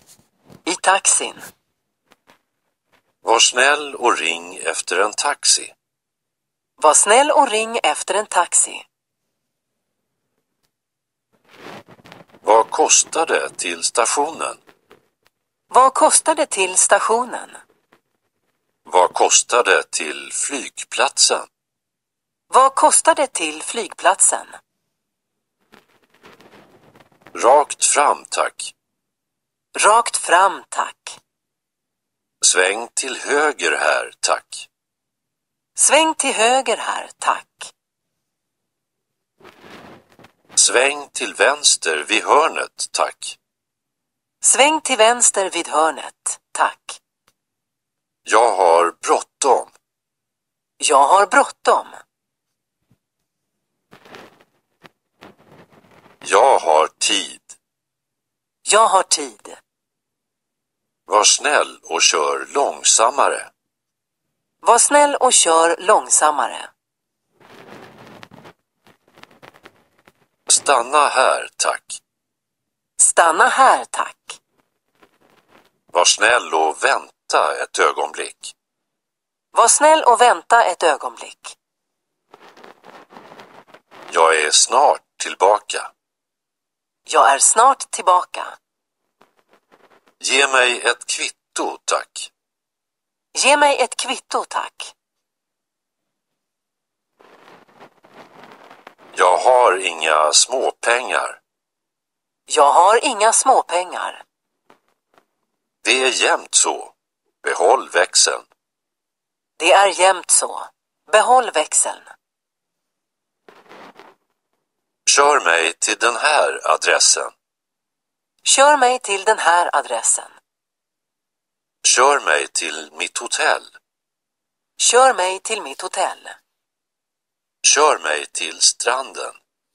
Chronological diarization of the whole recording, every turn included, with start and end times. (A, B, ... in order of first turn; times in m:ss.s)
0:00.6-0:01.4 A
0:03.2-0:05.7 B
0:06.8-0:08.8 A
0:12.4-0:14.6 B
0:15.7-0:17.6 A
0:18.8-0:21.5 B
0:22.5-0:24.6 A
0:27.3-0:28.7 B
0:29.7-0:31.2 A
0:32.4-0:34.7 B
0:35.8-0:37.7 A
0:40.6-0:43.4 B
0:44.4-0:47.0 A
0:48.2-0:49.7 B
0:50.8-0:52.0 A
0:56.2-0:57.5 B
0:58.6-0:59.6 A
1:01.1-1:03.5 B
1:04.6-1:06.7 A
1:10.5-1:12.0 B
1:13.0-1:14.4 A
1:15.9-1:18.5 B
1:19.5-1:21.6 A
1:24.1-1:25.9 B
1:27.0-1:28.6 A
1:30.2-1:32.3 B
1:33.3-1:34.9 A
1:39.1-1:41.4 B
1:42.5-1:44.2 A
1:45.8-1:48.5 B
1:49.6-1:52.1 A
1:55.0-1:57.3 B
1:58.4-2:00.4 A
2:01.8-2:03.7 B
2:04.8-2:06.4 A
2:07.6-2:09.4 B